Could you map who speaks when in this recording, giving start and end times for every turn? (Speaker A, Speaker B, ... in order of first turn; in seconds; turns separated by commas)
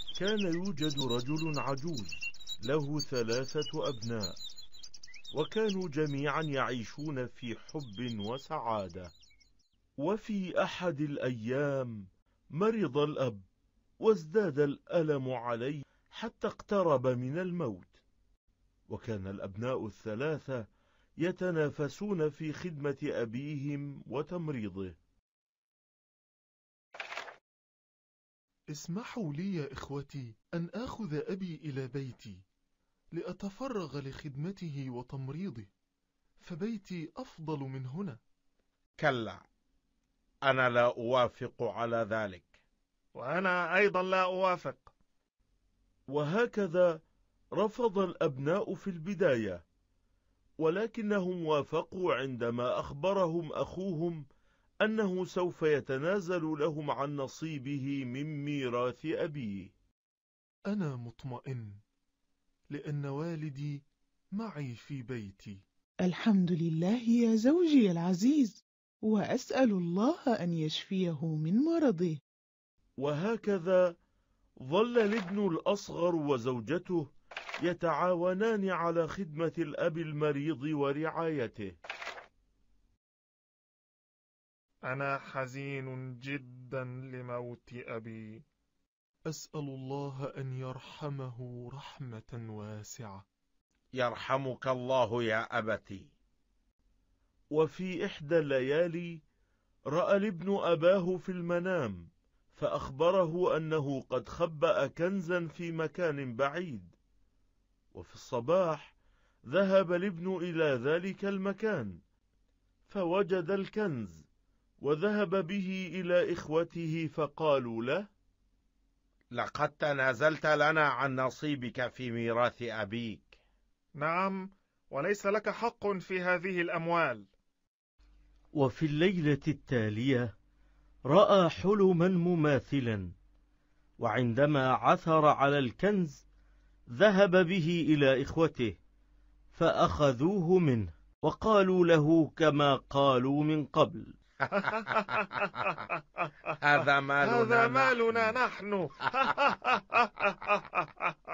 Speaker A: 0.2-4.4, Speaker A: 5.3-9.1, Speaker A: 10.0-12.1, Speaker A: 12.6-13.4, Speaker A: 14.0-18.0, Speaker A: 18.9-20.6, Speaker A: 21.2-24.9, Speaker B: 28.7-32.4, Speaker B: 33.1-35.7, Speaker B: 36.4-38.2, Speaker C: 39.0-39.4, Speaker C: 40.5-42.6, Speaker D: 43.2-44.9, Speaker A: 46.1-47.0, Speaker A: 47.6-49.6, Speaker A: 50.6-54.2, Speaker A: 54.8-59.7, Speaker B: 60.7-61.8, Speaker B: 62.7-65.6, Speaker E: 66.0-72.2, Speaker A: 73.0-73.8, Speaker A: 74.7-77.1, Speaker A: 77.6-81.8, Speaker D: 84.9-88.2, Speaker B: 89.3-93.2, Speaker C: 94.0-96.1, Speaker A: 97.5-99.2, Speaker A: 99.9-106.9, Speaker A: 108.0-108.9, Speaker A: 109.5-111.9, Speaker A: 112.9-114.2, Speaker A: 114.8-118.1, Speaker C: 119.3-123.3, Speaker D: 124.0-124.4, Speaker D: 124.9-127.2, Speaker A: 128.6-130.3, Speaker A: 131.1-133.1, Speaker A: 134.0-136.2, Speaker A: 136.9-138.7, Speaker A: 139.5-144.1, Speaker C: 144.6-145.1, Speaker D: 145.3-145.6, Speaker C: 146.6-148.3, Speaker D: 147.2-150.6